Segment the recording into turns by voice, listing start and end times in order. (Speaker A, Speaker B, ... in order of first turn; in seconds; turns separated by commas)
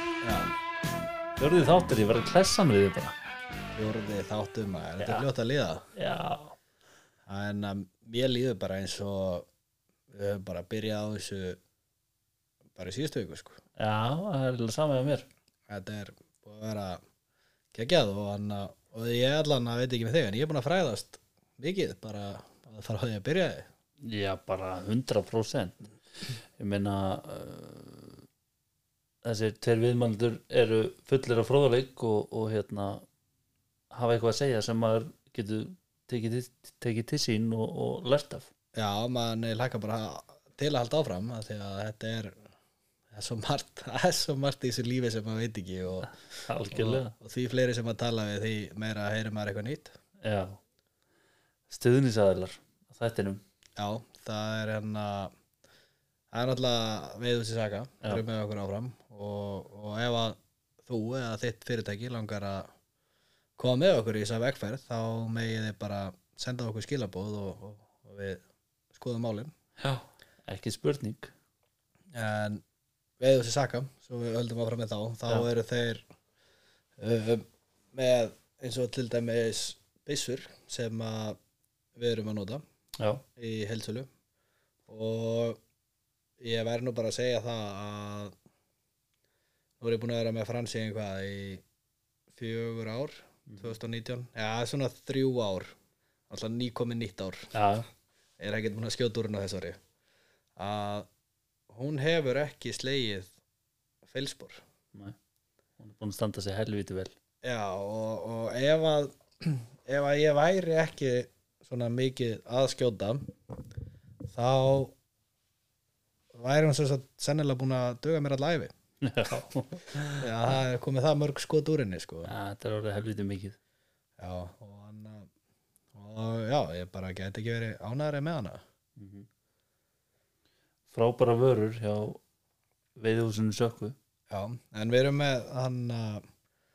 Speaker A: 0.2-0.5, Speaker B: 1.4-3.1, Speaker A: 3.7-5.8, Speaker B: 5.0-5.3, Speaker B: 5.9-6.6, Speaker A: 7.3-9.5, Speaker A: 10.1-11.6, Speaker A: 12.7-13.6, Speaker B: 13.8-15.3, Speaker A: 15.7-17.0, Speaker A: 17.7-23.7, Speaker B: 24.0-28.2, Speaker B: 29.2-33.0, Speaker B: 33.9-38.5, Speaker A: 38.7-42.4, Speaker A: 43.1-46.2, Speaker B: 46.3-47.1, Speaker A: 46.7-50.0, Speaker B: 50.2-50.6, Speaker B: 51.7-53.4, Speaker A: 53.8-55.3, Speaker A: 56.3-62.7, Speaker A: 63.6-68.4, Speaker A: 68.9-69.5, Speaker B: 69.8-71.3, Speaker A: 72.1-72.6, Speaker A: 73.2-76.0, Speaker A: 77.0-81.4, Speaker A: 82.0-82.6, Speaker A: 83.3-84.1, Speaker A: 84.9-85.6, Speaker A: 86.4-88.3, Speaker A: 89.8-91.6, Speaker A: 92.3-95.7, Speaker B: 93.5-93.7, Speaker A: 96.3-97.5, Speaker B: 97.5-97.9, Speaker A: 98.4-99.8, Speaker A: 100.6-101.1, Speaker A: 101.7-103.3, Speaker A: 104.0-104.6, Speaker B: 105.8-107.1, Speaker A: 107.4-113.3, Speaker A: 114.3-114.9, Speaker A: 116.3-118.7, Speaker B: 119.0-120.3, Speaker A: 120.2-122.3, Speaker B: 122.2-123.6, Speaker A: 124.2-125.3, Speaker A: 125.9-128.6, Speaker B: 129.0-129.3, Speaker B: 130.9-132.2, Speaker B: 133.0-133.9, Speaker A: 134.3-136.3